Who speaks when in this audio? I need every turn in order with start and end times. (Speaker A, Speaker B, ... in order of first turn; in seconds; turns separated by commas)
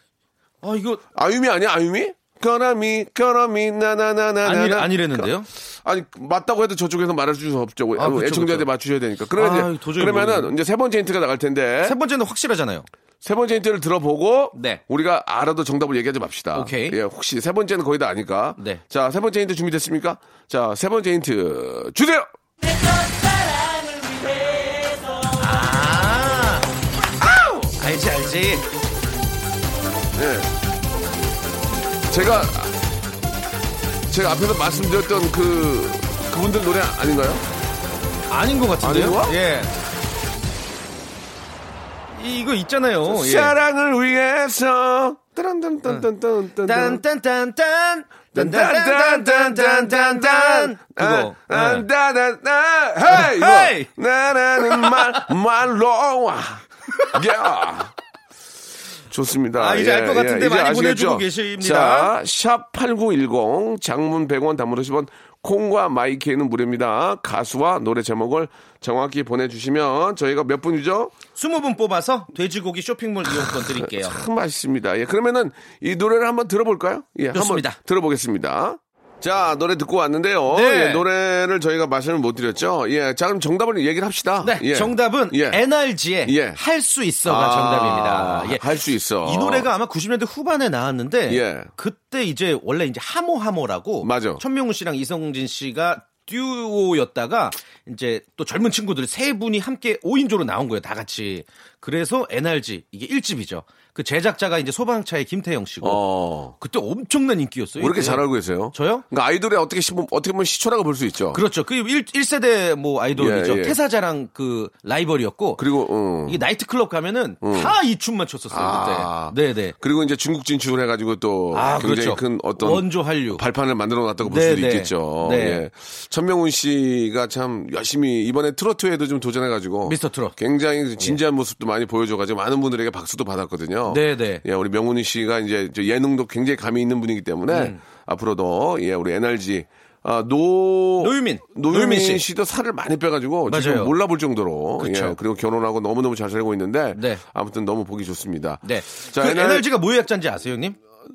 Speaker A: 0.6-1.0, Speaker B: 1.1-5.3, Speaker A: 4.4-5.5, Speaker B: 5.8-11.9, Speaker A: 8.0-8.7, Speaker A: 9.3-10.5, Speaker A: 11.8-12.9, Speaker B: 13.2-22.3, Speaker A: 14.5-14.8, Speaker A: 16.5-17.0, Speaker A: 25.3-26.7, Speaker A: 27.8-28.6, Speaker B: 30.1-30.5, Speaker B: 32.1-32.7, Speaker B: 34.1-37.4, Speaker A: 38.3-39.7, Speaker B: 38.8-39.4, Speaker A: 42.1-43.5, Speaker B: 43.0-47.0, Speaker A: 46.6-51.9, Speaker B: 48.3-57.9, Speaker A: 53.1-53.9, Speaker A: 54.6-55.3, Speaker B: 59.1-71.2, Speaker A: 59.5-62.1, Speaker A: 71.3-74.2, Speaker B: 73.3-85.6, Speaker A: 77.3-77.8, Speaker A: 80.5-81.0, Speaker A: 84.4-88.7, Speaker B: 86.2-86.6, Speaker B: 87.2-89.7, Speaker A: 89.2-106.0, Speaker B: 91.3-91.7, Speaker B: 94.0-94.4, Speaker B: 105.8-106.5, Speaker A: 106.5-109.0, Speaker B: 107.8-111.4, Speaker A: 111.3-115.6, Speaker B: 113.1-113.8, Speaker B: 115.6-116.4, Speaker A: 116.2-119.7, Speaker B: 117.4-117.7, Speaker B: 118.5-149.7, Speaker A: 121.5-123.4, Speaker A: 124.2-125.6, Speaker A: 129.8-130.4, Speaker A: 133.9-134.4, Speaker A: 137.5-137.8, Speaker A: 141.0-142.2, Speaker A: 143.5-143.9, Speaker A: 144.8-145.2, Speaker A: 146.9-147.2, Speaker A: 148.6-150.8